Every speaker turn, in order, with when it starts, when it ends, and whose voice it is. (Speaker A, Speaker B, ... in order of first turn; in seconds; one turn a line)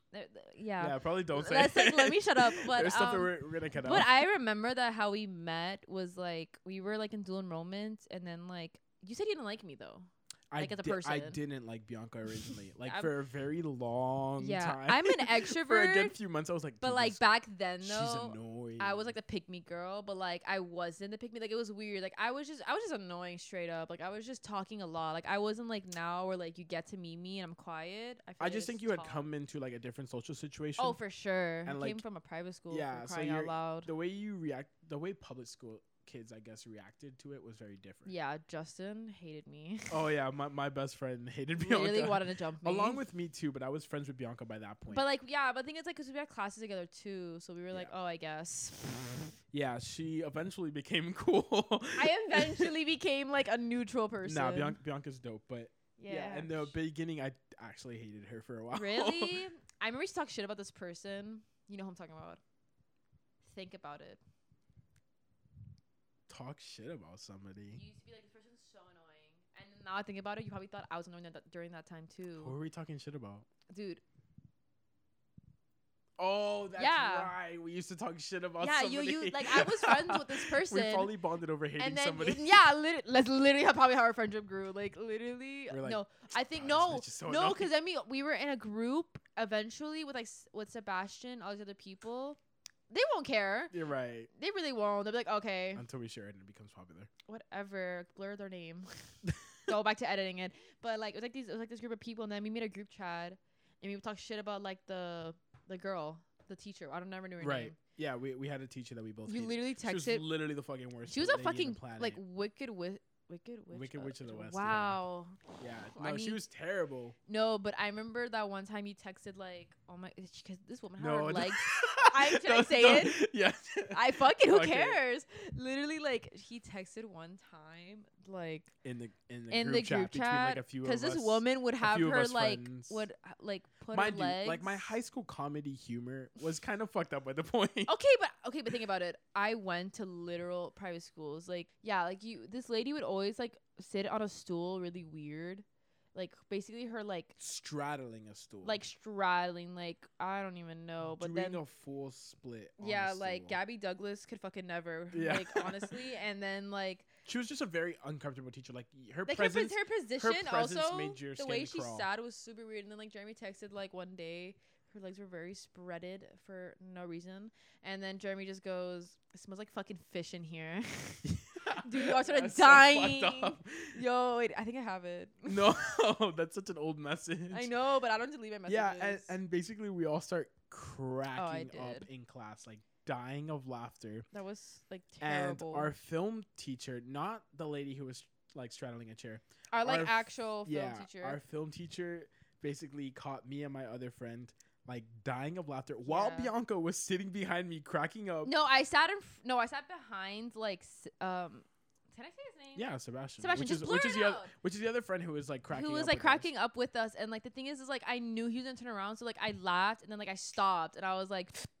Speaker A: 0.1-11.4
Speaker B: 0.8-4.2
Speaker B: 10.5-17.2
Speaker A: 12.8-13.1
Speaker A: 14.4-16.2
Speaker A: 16.8-29.2
Speaker B: 17.8-19.1
Speaker B: 28.4-31.0
Speaker A: 30.8-33.9
Speaker B: 31.6-32.0
Speaker B: 32.7-38.1
Speaker A: 38.0-40.0
Speaker B: 39.9-45.0
Speaker A: 41.6-43.0
Speaker A: 44.9-49.2
Speaker B: 49.5-52.7
Speaker A: 51.9-54.8
Speaker B: 54.2-59.4
Speaker A: 56.0-56.7
Speaker A: 58.7-62.4
Speaker A: 63.4-64.2
Speaker B: 66.3-67.8
Speaker A: 67.7-72.5
Speaker B: 72.4-73.5
Speaker A: 73.7-74.0
Speaker B: 76.2-82.6
Speaker A: 76.8-77.3
Speaker A: 78.6-81.1
Speaker A: 81.8-92.4
Speaker B: 85.7-86.0
Speaker B: 86.5-87.7
Speaker A: 92.9-93.8
Speaker B: 93.7-94.3
Speaker A: 94.3-95.8
Speaker B: 95.8-97.1
Speaker A: 97.3-99.1
Speaker A: 99.7-107.8
Speaker B: 107.4-112.2
Speaker A: 109.3-110.2
Speaker A: 111.1-115.4
Speaker B: 113.7-115.0
Speaker B: 115.5-117.2
Speaker A: 116.0-116.4
Speaker A: 117.3-123.2
Speaker B: 121.0-125.0
Speaker A: 123.9-128.7
Speaker B: 128.8-133.1
Speaker A: 129.5-134.9
Speaker B: 133.9-137.9
Speaker A: 137.8-147.3
Speaker B: 147.4-148.8
Speaker A: 148.6-151.6
Speaker B: 151.0-153.6
Speaker A: 152.8-157.1
Speaker B: 155.1-156.0
Speaker B: 157.2-162.1
Speaker A: 159.2-175.8
Speaker B: 171.2-174.0
Speaker B: 175.4-177.7
Speaker A: 177.5-179.4
Speaker B: 178.7-184.3
Speaker A: 181.3-182.1
Speaker A: 184.3-185.9
Speaker B: 185.2-198.5
Speaker A: 189.7-191.4
Speaker A: 196.1-196.5
Speaker A: 198.4-202.9
Speaker B: 202.8-206.5
Speaker A: 203.4-204.5
Speaker A: 205.7-211.7